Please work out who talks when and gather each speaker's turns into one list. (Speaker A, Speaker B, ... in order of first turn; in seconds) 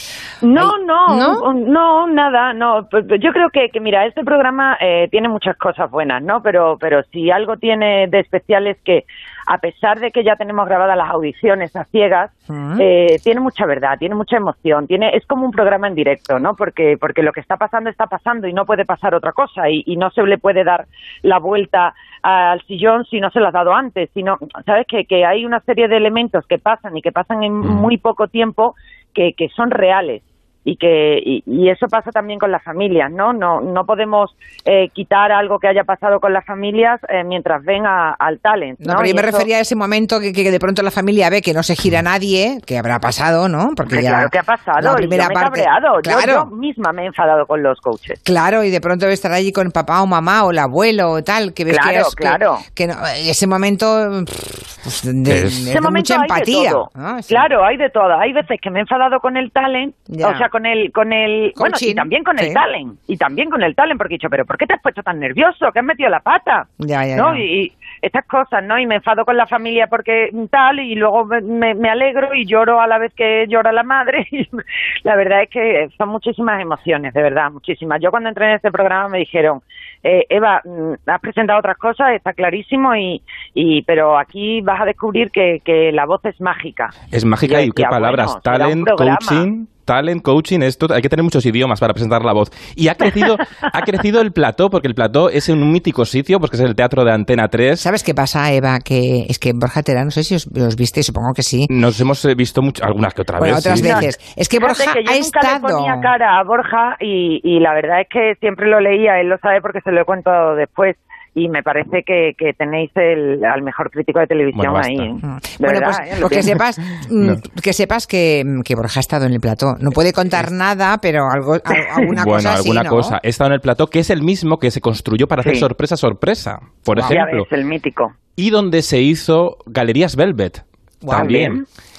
Speaker A: 0.4-39.5, 43.9-48.2, 51.7-52.6, 55.7-89.5, 103.7-104.1, 104.6-116.6, 127.0-128.1, 131.1-131.6
Speaker B: 0.6-1.4, 12.5-12.8, 38.8-46.5, 48.2-57.5, 60.1-60.4, 61.6-62.6, 66.8-67.4, 97.8-101.7, 103.4-106.1, 115.2-123.2, 126.9-127.2, 131.0-131.4
Speaker C: 55.3-55.7, 87.1-97.9, 101.7-104.1, 114.5-115.1, 122.1-127.5, 128.4-131.6